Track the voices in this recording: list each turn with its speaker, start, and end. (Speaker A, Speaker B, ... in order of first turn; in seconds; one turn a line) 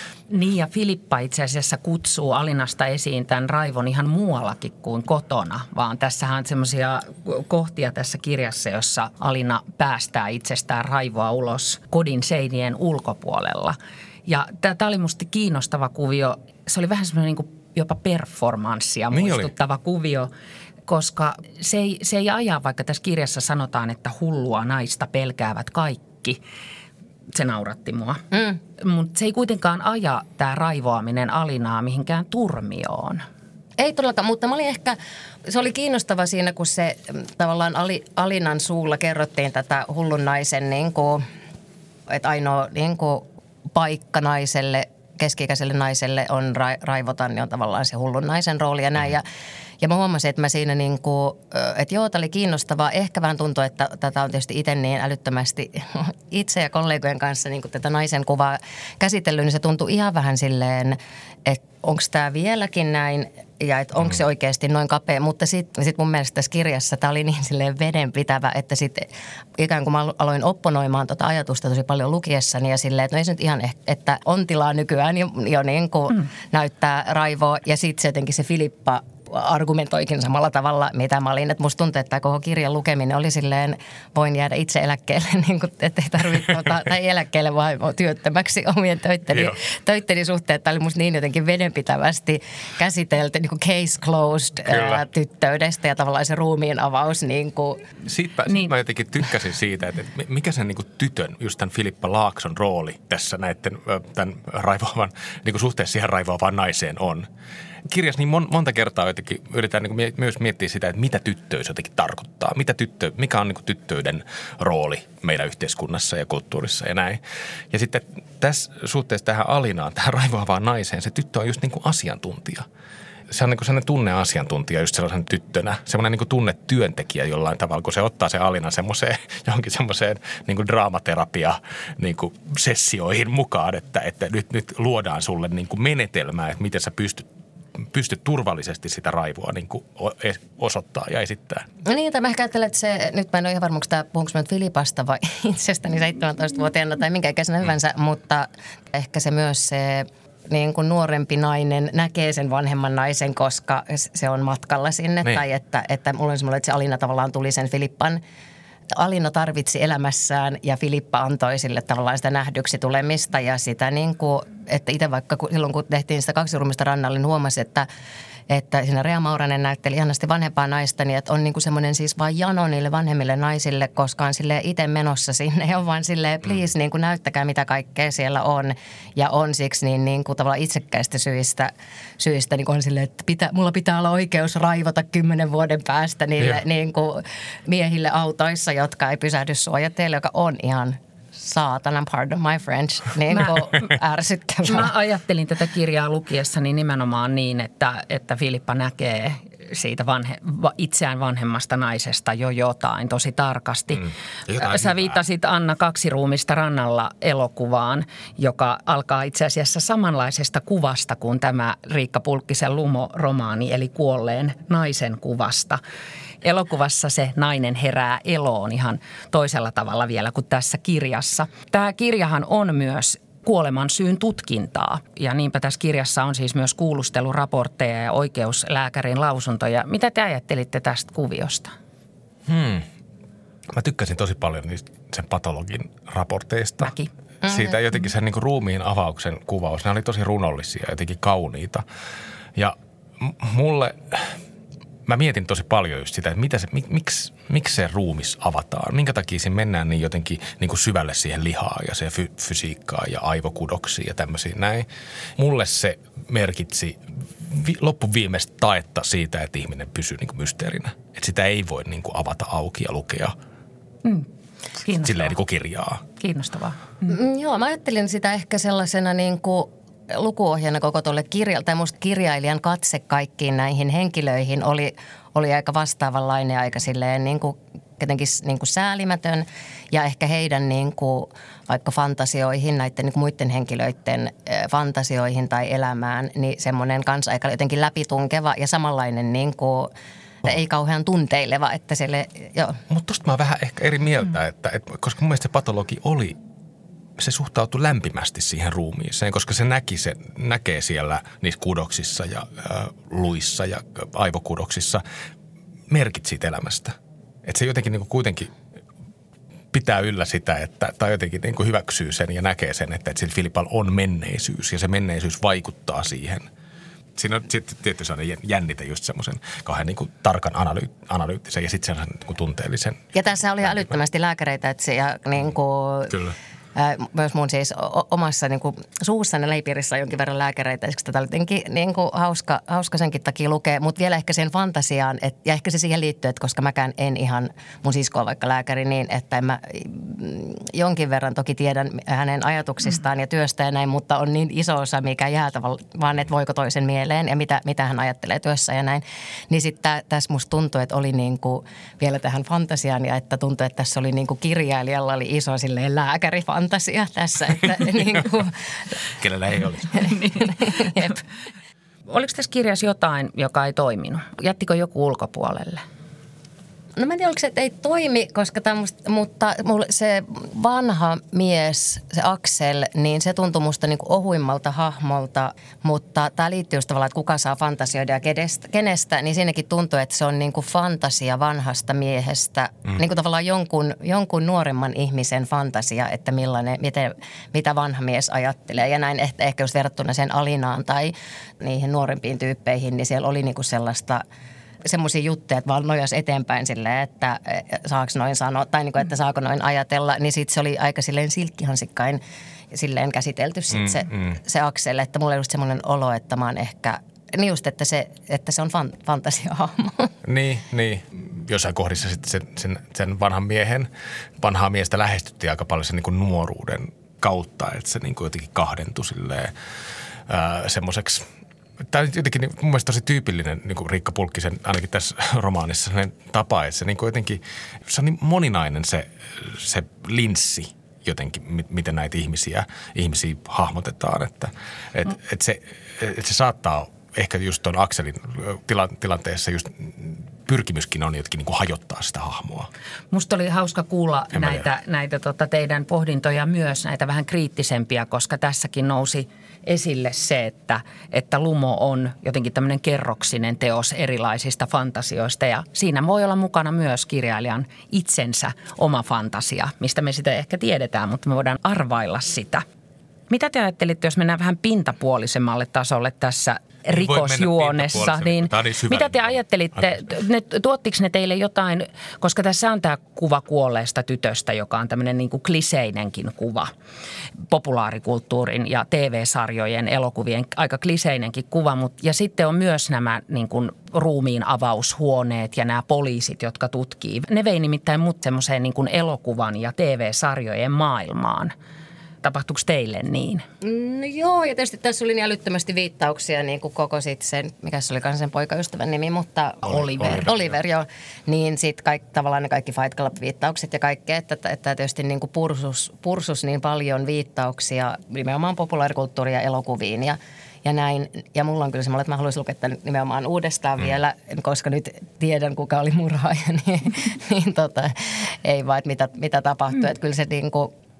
Speaker A: 0.3-20.3
Speaker B: 19.1-19.5
Speaker A: 20.9-26.4
Speaker A: 27.3-28.2
Speaker C: 28.3-28.6
Speaker A: 28.8-33.2
Speaker C: 33.8-41.2
Speaker C: 42.1-49.2
Speaker C: 49.8-97.8
Speaker B: 89.3-89.6
Speaker B: 94.6-95.0
Speaker B: 98.0-107.3
Speaker B: 107.9-117.2
Speaker B: 117.7-122.7
Speaker B: 123.3-137.2
Speaker B: 137.9-141.6
Speaker C: 141.8-158.2
Speaker C: 159.0-167.9
Speaker C: 168.5-194.9
Speaker A: 193.3-193.6
Speaker A: 194.6-215.8
Speaker B: 204.5-205.2
Speaker A: 216.4-231.7
Speaker B: 232.4-232.9
Speaker B: 233.7-241.8
Speaker A: 236.8-237.1
Speaker C: 237.4-237.8
Speaker B: 242.6-244.3
Speaker B: 245.1-254.8
Speaker B: 255.4-263.3
Speaker A: 264.0-265.4
Speaker B: 265.0-266.0
Speaker A: 266.1-267.1
Speaker C: 267.1-289.9
Speaker C: 290.4-292.8
Speaker B: 292.9-296.4
Speaker B: 297.2-305.0
Speaker B: 305.9-308.5
Speaker B: 309.7-316.5
Speaker B: 317.1-323.0
Speaker C: 323.1-326.2
Speaker B: 323.6-323.9
Speaker B: 326.1-326.4
Speaker C: 326.8-358.5
Speaker B: 359.2-360.1
Speaker C: 359.9-361.1
Speaker A: 360.0-361.1
Speaker A: 362.1-365.8
Speaker C: 367.0-394.2
Speaker C: 394.9-402.2
Speaker C: 402.7-410.1
Speaker B: 410.2-413.9
Speaker B: 414.4-419.5
Speaker B: 420.3-421.2
Speaker B: 421.9-442.7
Speaker A: 443.1-462.6
Speaker B: 444.3-444.6
Speaker A: 463.3-476.7
Speaker B: 466.9-469.4
Speaker A: 477.5-491.5
Speaker A: 492.2-493.4
Speaker C: 493.6-517.9
Speaker A: 499.6-500.2
Speaker B: 499.6-500.4
Speaker C: 518.4-520.7